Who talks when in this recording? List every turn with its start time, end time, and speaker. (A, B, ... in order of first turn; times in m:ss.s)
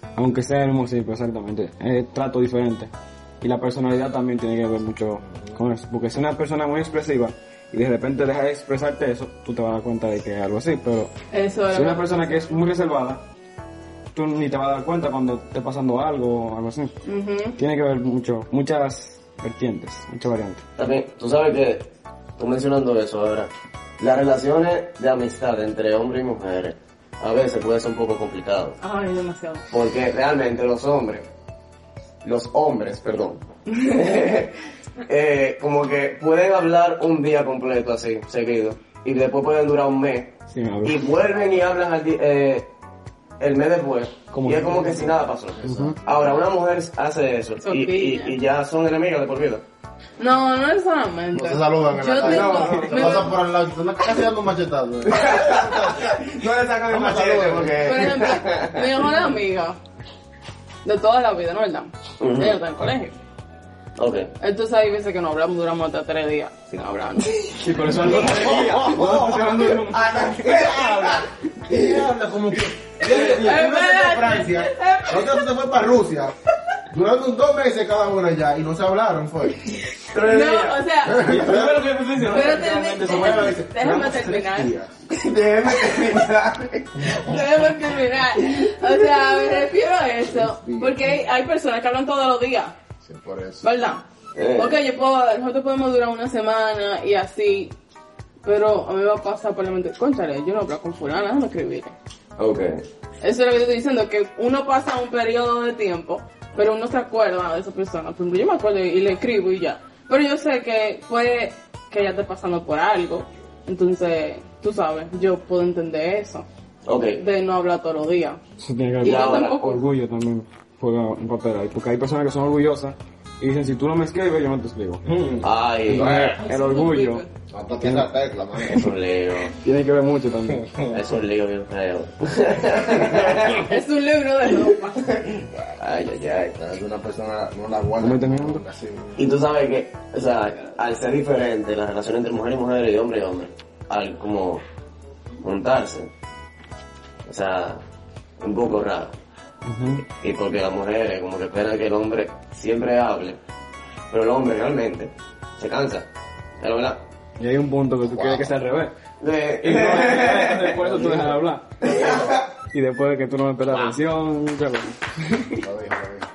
0:00.2-0:11.1 A
0:11.3-0:12.3 B
0:11.7-0:13.2 A
0:14.1-0:16.9 A
0:17.0-0:17.6 B
0:17.6-0:20.6 A
0:20.8-0:28.8 C
0:28.8-0:29.6 B
0:29.7-0:31.3 C
0:32.2-0:34.5 C
0:33.7-0:34.0 B
0:35.0-0:42.7 C
0:40.5-0:41.1 A
0:41.3-0:41.6 D
0:43.4-0:49.6 C
0:44.3-0:46.0 A
0:45.6-0:46.4 D
0:47.6-0:48.4 B
0:50.2-0:53.3 B
0:51.3-0:56.2 D
0:52.2-0:53.3 C
0:55.1-0:58.8 C
0:56.9-0:58.0 D
0:57.8-0:59.8 B
1:00.8-1:03.1 B
1:02.2-1:02.6 C
1:04.0-1:04.3 C
1:04.4-1:08.3 B
1:07.6-1:10.5 A
1:08.1-1:16.3 D
1:09.9-1:11.2 C
1:13.0-1:15.2 B
1:16.9-1:19.7 D
1:20.1-1:20.8 C
1:20.2-1:21.5 B
1:21.0-1:21.8 D
1:21.2-1:23.6 A
1:22.3-1:24.7 B
1:23.0-1:25.0 D
1:25.1-1:27.0 C
1:27.0-1:27.3 D
1:27.1-1:32.7 B
1:30.3-1:31.0 D
1:33.0-1:33.7 D
1:33.6-1:37.7 B
1:34.3-1:34.8 C
1:38.4-1:41.9 B
1:42.4-1:42.8 C
1:43.2-1:56.4 B
1:56.8-1:57.2 C
1:57.2-1:58.4 B
1:58.7-2:07.2 A
1:59.0-1:59.8 B
1:59.0-1:59.8 C
2:05.4-2:06.2 C
2:06.0-2:06.3 D
2:06.2-2:07.2 B
2:07.5-2:08.8 D
2:07.8-2:08.1 A
2:08.7-2:09.5 C
2:09.6-2:10.8 A
2:10.6-2:10.8 D
2:10.9-2:13.6 C
2:13.5-2:15.0 B
2:15.1-2:16.6 C
2:16.5-2:19.3 D
2:18.0-2:18.6 A
2:19.2-2:24.6 C
2:25.4-2:26.1 C
2:27.2-2:27.8 C
2:28.4-2:29.2 C
2:29.6-2:30.0 A
2:30.0-2:33.4 C
2:34.1-2:36.1 C
2:36.6-2:37.0 C
2:37.4-2:38.9 A
2:38.1-2:38.5 D
2:39.2-2:41.2 C
2:39.6-2:41.7 A
2:40.9-2:41.2 D
2:41.8-2:42.4 D
2:41.8-2:42.4 C
2:42.7-2:45.6 A
2:43.7-2:44.0 C
2:45.6-2:46.3 D